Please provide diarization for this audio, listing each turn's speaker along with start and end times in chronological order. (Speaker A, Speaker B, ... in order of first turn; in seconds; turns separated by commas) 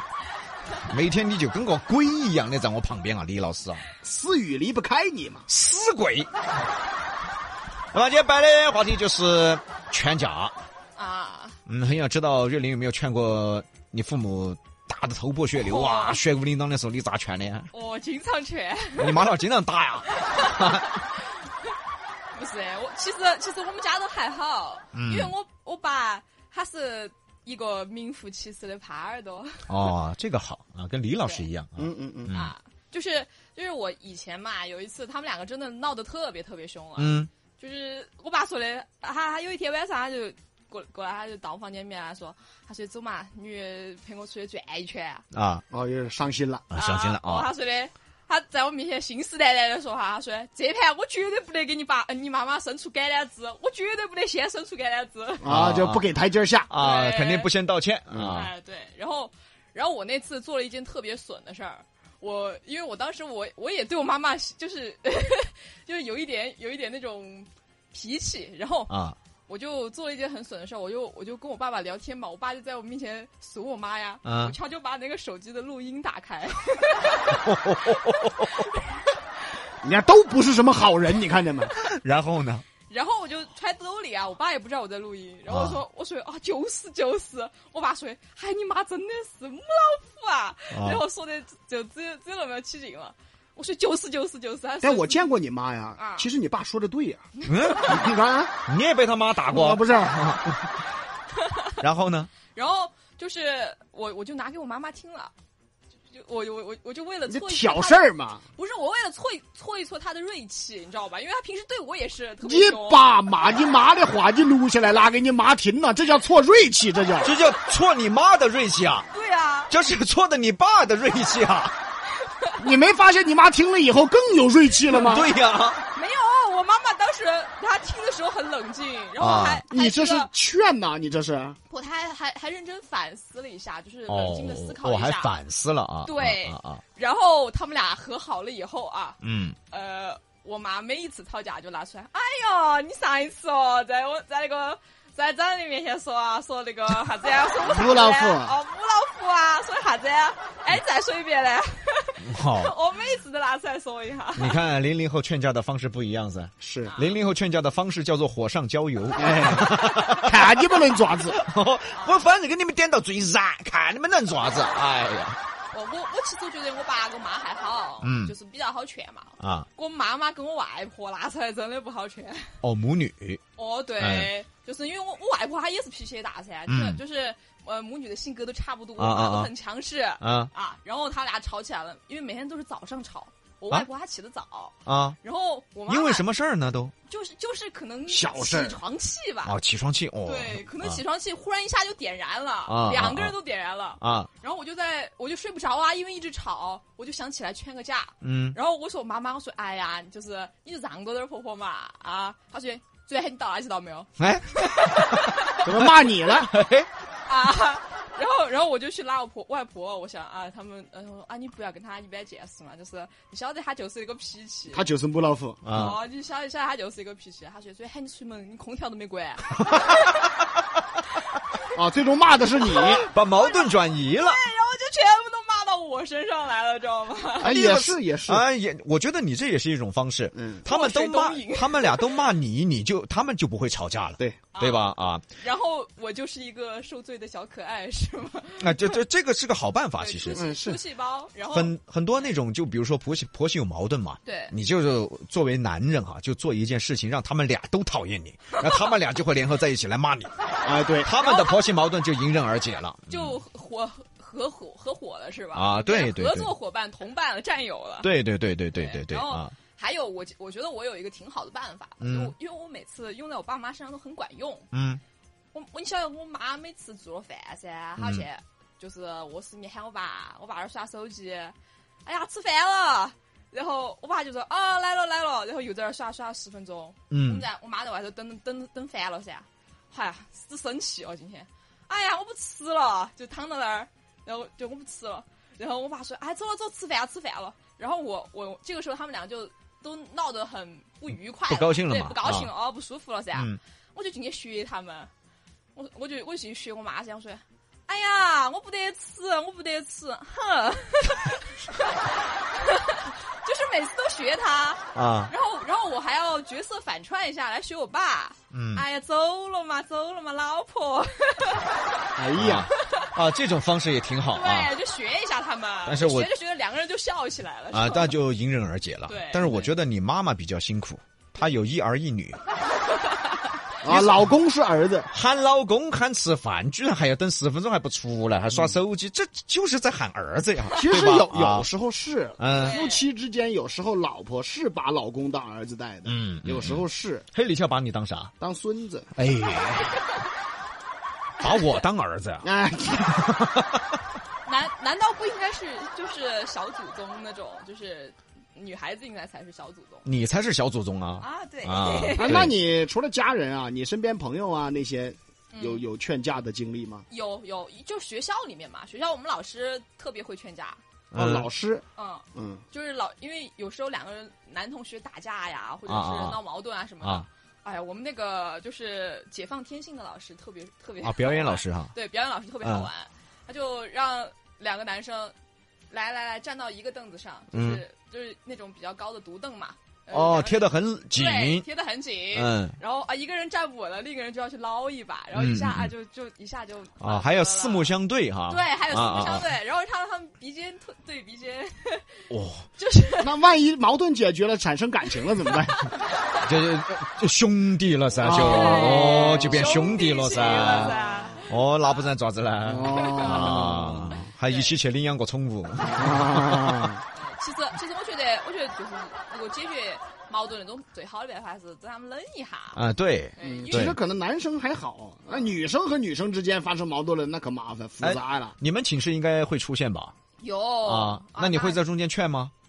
Speaker A: 0.8-3.8, Speaker B: 4.0-5.5, Speaker A: 5.5-6.3, Speaker A: 7.9-10.5, Speaker C: 10.9-11.6, Speaker A: 11.7-17.7, Speaker C: 15.6-16.2, Speaker C: 17.7-19.3, Speaker A: 19.0-20.9, Speaker C: 20.1-21.7, Speaker C: 22.3-29.9, Speaker A: 24.9-25.3, Speaker A: 29.7-32.5, Speaker B: 31.8-32.3, Speaker C: 32.3-45.2, Speaker A: 37.0-37.3, Speaker A: 45.3-45.6, Speaker B: 45.7-46.7, Speaker A: 46.7-47.5, Speaker C: 46.7-55.5, Speaker B: 55.4-56.7, Speaker A: 55.5-56.0, Speaker A: 56.7-58.5, Speaker C: 56.8-57.5, Speaker C: 58.3-68.9, Speaker A: 68.9-69.2, Speaker C: 69.5-79.0, Speaker A: 74.2-74.5, Speaker A: 77.3-78.6, Speaker B: 79.8-81.7, Speaker A: 81.7-82.6, Speaker C: 82.9-95.3, Speaker A: 85.5-85.8, Speaker A: 90.7-91.0, Speaker B: 94.8-97.2, Speaker C: 96.0-96.3, Speaker C: 97.4-98.1, Speaker A: 97.4-97.9, Speaker B: 97.8-98.5, Speaker A: 98.7-100.5, Speaker B: 99.5-100.5, Speaker C: 101.4-101.8, Speaker A: 101.8-102.3, Speaker C: 102.5-105.3, Speaker C: 106.1-113.1, Speaker B: 107.3-108.4, Speaker B: 112.4-117.3, Speaker A: 117.2-119.1, Speaker C: 119.1-119.7, Speaker A: 119.7-121.7, Speaker C: 122.2-122.6, Speaker B: 122.6-125.3, Speaker A: 125.0-125.8, Speaker C: 125.9-130.3, Speaker A: 129.2-129.6, Speaker B: 129.5-131.6, Speaker C: 131.7-135.4, Speaker A: 134.1-136.8, Speaker C: 136.0-154.6, Speaker A: 139.2-139.6, Speaker B: 147.6-148.6, Speaker A: 152.2-152.7, Speaker A: 154.3-165.4, Speaker B: 156.6-156.9, Speaker C: 156.8-157.2, Speaker B: 159.2-161.4, Speaker C: 161.9-162.3, Speaker C: 165.7-172.6, Speaker A: 168.0-168.3, Speaker A: 169.4-169.7, Speaker A: 172.6-173.4, Speaker C: 173.6-186.3, Speaker A: 174.0-174.3, Speaker A: 176.7-177.0, Speaker A: 179.0-179.5, Speaker A: 180.2-180.5, Speaker A: 184.8-185.2, Speaker A: 185.9-186.9, Speaker C: 187.1-189.6, Speaker B: 188.1-188.8, Speaker A: 189.4-191.0, Speaker C: 190.2-205.7, Speaker A: 192.7-193.3, Speaker A: 194.0-194.3, Speaker A: 198.2-198.6, Speaker A: 204.2-206.9, Speaker B: 205.6-206.5, Speaker C: 207.2-214.9, Speaker B: 214.7-215.8, Speaker A: 215.6-216.0, Speaker C: 215.7-220.3, Speaker A: 219.6-220.2, Speaker B: 221.8-223.1, Speaker C: 222.6-227.8, Speaker A: 223.0-224.4, Speaker B: 227.4-228.4, Speaker A: 227.4-235.2, Speaker B: 230.3-230.7, Speaker C: 230.7-232.3, Speaker C: 234.5-239.0, Speaker A: 238.6-240.5, Speaker C: 240.0-241.8, Speaker B: 240.3-240.8, Speaker A: 241.5-250.3, Speaker C: 244.2-244.5, Speaker C: 248.5-249.0, Speaker B: 250.6-251.1, Speaker A: 251.0-253.4, Speaker C: 251.1-251.8, Speaker C: 253.1-258.1, Speaker A: 255.5-256.5, Speaker A: 258.0-259.5, Speaker C: 258.7-264.7, Speaker A: 262.0-262.3, Speaker A: 264.7-265.0, Speaker C: 265.5-295.1, Speaker A: 268.0-268.3, Speaker A: 277.1-277.4, Speaker A: 291.5-292.5, Speaker A: 293.3-293.6, Speaker C: 295.8-312.1, Speaker A: 304.9-305.3, Speaker A: 308.5-308.9, Speaker B: 312.2-312.7, Speaker A: 312.3-314.7, Speaker C: 312.7-313.1, Speaker C: 314.3-318.2, Speaker A: 315.9-316.3, Speaker A: 317.7-322.4, Speaker C: 319.1-319.7, Speaker C: 322.9-323.4, Speaker B: 323.8-325.1, Speaker A: 323.9-324.3, Speaker A: 325.1-331.7, Speaker B: 330.8-337.3, Speaker A: 332.4-332.8, Speaker C: 332.6-333.0, Speaker A: 336.1-338.3, Speaker B: 338.4-339.1, Speaker A: 339.2-340.1, Speaker A: 341.4-342.5, Speaker C: 341.4-341.9, Speaker B: 342.4-343.3, Speaker A: 343.2-343.9, Speaker C: 344.4-350.1, Speaker A: 350.1-352.5, Speaker C: 351.2-352.4, Speaker B: 352.1-357.1, Speaker C: 355.5-355.9, Speaker C: 357.1-360.8, Speaker A: 361.1-361.5, Speaker B: 361.2-361.8, Speaker C: 361.9-375.3, Speaker B: 362.4-362.6, Speaker A: 365.9-366.4, Speaker A: 367.0-367.3, Speaker A: 371.0-371.9, Speaker A: 372.6-372.9, Speaker C: 375.9-388.0, Speaker A: 377.5-377.8, Speaker A: 380.1-381.7, Speaker A: 382.3-382.8, Speaker A: 385.3-385.9, Speaker A: 387.0-389.5, Speaker C: 388.5-392.2, Speaker A: 392.3-392.7, Speaker C: 392.8-393.4, Speaker B: 393.2-395.9, Speaker C: 395.6-396.4, Speaker A: 396.4-406.9, Speaker B: 398.2-399.7, Speaker C: 398.3-402.1, Speaker B: 400.4-401.2, Speaker B: 402.6-404.2, Speaker C: 402.9-403.5, Speaker C: 404.1-404.8, Speaker B: 405.9-407.0, Speaker C: 407.1-412.8, Speaker A: 412.8-414.0, Speaker C: 413.4-413.9, Speaker B: 413.4-418.6, Speaker A: 418.0-420.1, Speaker C: 420.4-421.8, Speaker A: 420.8-422.5